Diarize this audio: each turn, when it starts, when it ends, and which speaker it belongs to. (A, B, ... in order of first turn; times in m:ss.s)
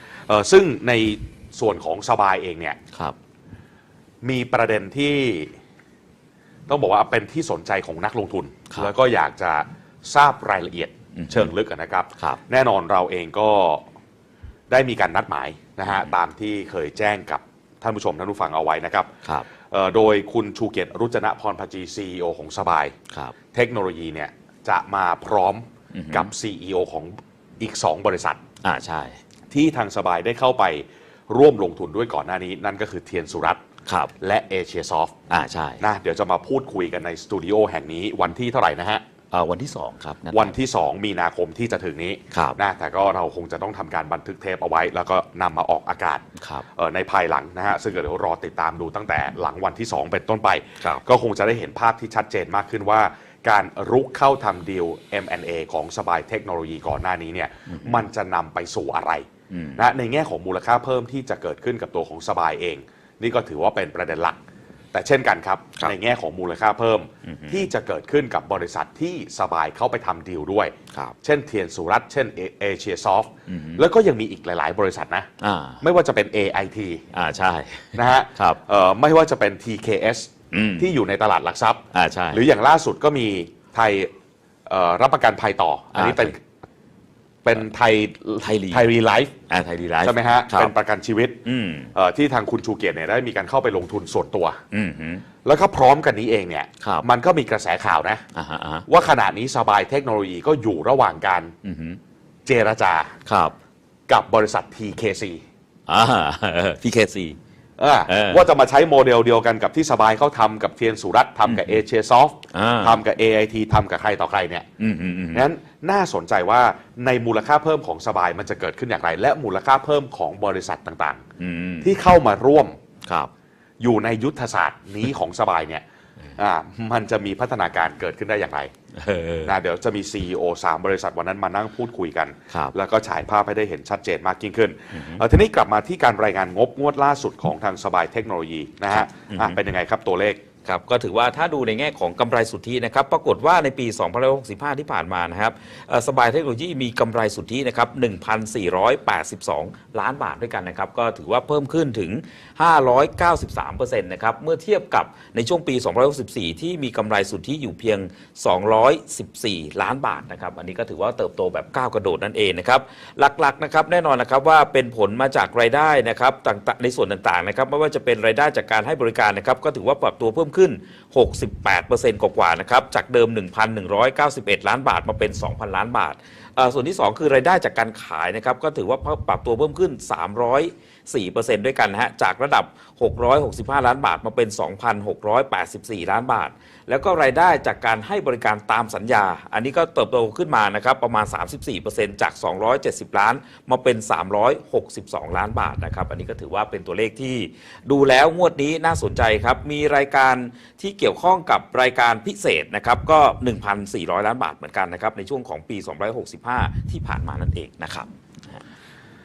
0:00.3-0:02.8 A
0:04.2-0:05.6 A
0:06.7-0:13.8 A
0:11.2-0:11.5 B
0:14.7-0:23.0 A
0:23.5-0:28.4 A
0:25.9-0:26.3 B
0:28.6-0:29.2 B
0:29.5-0:33.6 A
0:33.8-0:34.1 B
0:34.2-0:35.1 A
0:35.3-0:35.8 B
0:35.8-0:39.0 A
0:39.3-0:40.6 B
0:40.3-0:59.3 A
0:42.3-0:42.6 B
0:46.4-0:46.6 B
0:57.7-0:58.0 B
0:59.5-0:59.8 B
0:59.8-1:04.4 A
1:04.9-1:15.3 A
1:07.3-1:07.7 B
1:13.5-1:13.8 B
1:15.4-1:15.8 B
1:15.8-1:17.0 A
1:17.1-1:18.6 B
1:18.0-1:24.1 A
1:20.5-1:20.9 B
1:21.9-1:22.4 B
1:24.7-1:26.4 A
1:25.9-1:26.3 B
1:27.4-1:29.3 A
1:28.4-1:28.8 B
1:29.5-1:30.7 B
1:30.0-1:31.4 A
1:31.4-1:31.9 B
1:31.9-1:34.6 A
1:34.7-1:35.2 B
1:35.4-1:38.2 A
1:38.3-1:38.9 B
1:38.9-1:41.5 A
1:41.6-1:42.0 B
1:42.4-1:43.2 A
1:43.3-1:43.6 B
1:44.1-1:45.4 A
1:45.9-1:47.4 B
1:47.8-1:54.7 A
1:48.1-1:48.4 B
1:51.4-1:51.8 B
1:52.5-1:53.0 B
1:54.8-1:55.4 B
1:55.3-2:01.2 A
2:01.4-2:01.9 B
2:01.8-2:02.8 A
2:03.0-2:03.3 B
2:03.8-2:05.8 A
2:06.4-2:08.7 A
2:08.9-2:09.5 B
2:09.4-2:20.4 A
2:14.9-2:15.2 B
2:18.9-2:19.6 B
2:20.6-3:28.6 B